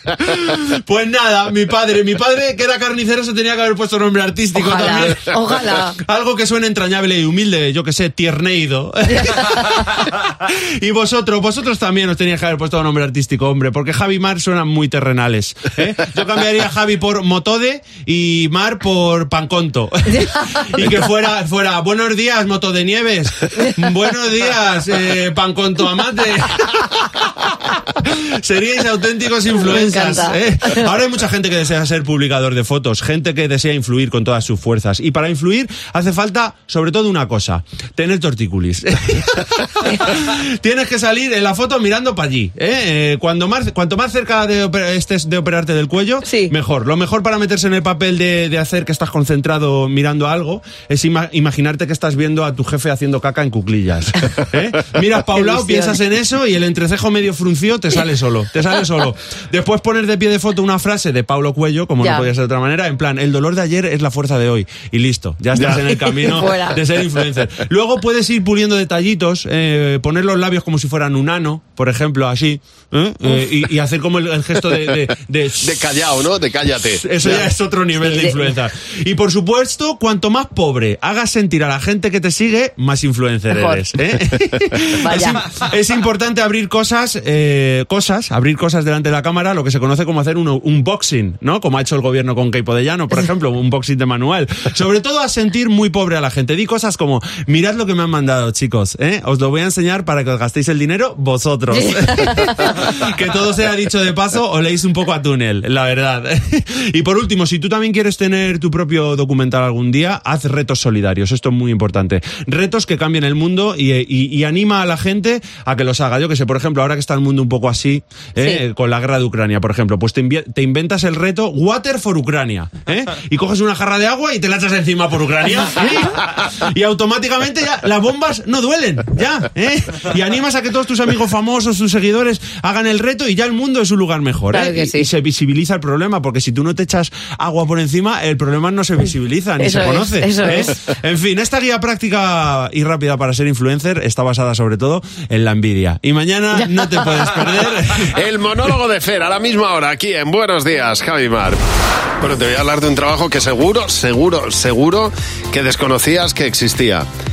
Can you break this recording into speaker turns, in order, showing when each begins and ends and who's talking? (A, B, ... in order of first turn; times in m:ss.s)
0:00.4-0:05.3 A
0:04.5-0:06.0 B
0:06.0-0:26.9 A
0:09.1-0:09.9 B
0:20.1-0:20.9 B
0:28.0-1:15.7 A
0:29.6-0:30.8 B
0:46.2-0:46.5 B
0:55.3-0:56.0 B
1:02.0-1:02.3 B
1:05.5-1:05.8 C
1:05.9-1:06.8 B
1:15.6-1:17.5 C
1:17.0-2:28.1 A
1:18.0-1:18.5 B
1:23.5-1:23.8 B
1:25.0-1:25.4 B
1:41.7-1:42.7 B
2:14.5-2:15.1 B
2:19.6-2:20.7 B
2:26.6-2:27.4 B
2:28.1-2:31.6 C
2:32.2-2:37.1 C